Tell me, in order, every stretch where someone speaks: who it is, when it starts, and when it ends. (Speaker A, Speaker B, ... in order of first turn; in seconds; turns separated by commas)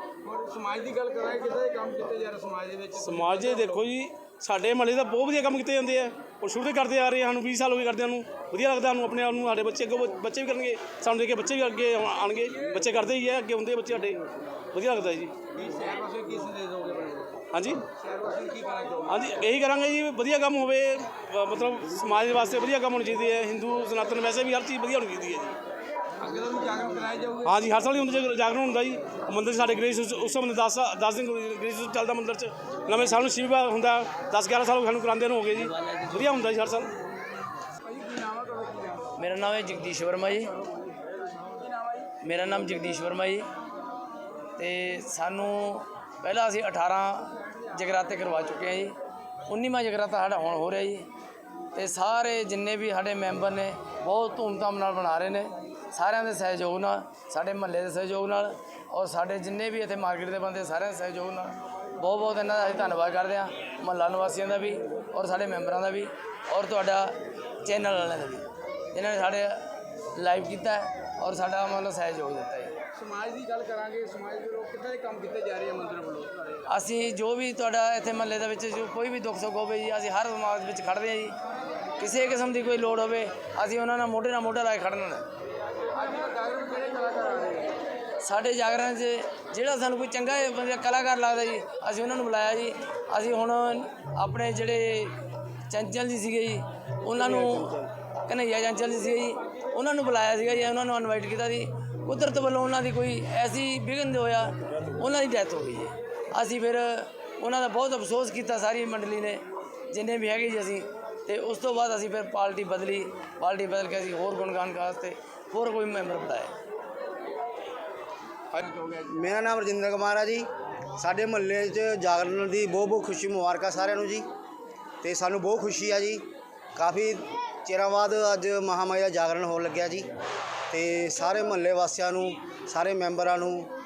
Speaker A: 0.2-3.8, Speaker B: 3.0-15.4, Speaker A: 15.5-19.3, Speaker B: 17.5-17.8, Speaker B: 19.1-25.6, Speaker A: 26.2-27.5, Speaker B: 27.4-36.9, Speaker C: 35.8-36.2, Speaker A: 37.8-39.1, Speaker C: 39.1-40.6, Speaker A: 40.9-42.1, Speaker C: 42.2-43.5, Speaker C: 44.6-51.1, Speaker C: 51.7-72.8, Speaker A: 72.9-76.6, Speaker C: 76.7-81.4, Speaker C: 82.0-85.2, Speaker A: 85.9-87.8, Speaker C: 88.2-116.5, Speaker A: 118.5-119.0, Speaker D: 119.1-124.3, Speaker D: 125.0-130.1, Speaker D: 130.7-133.7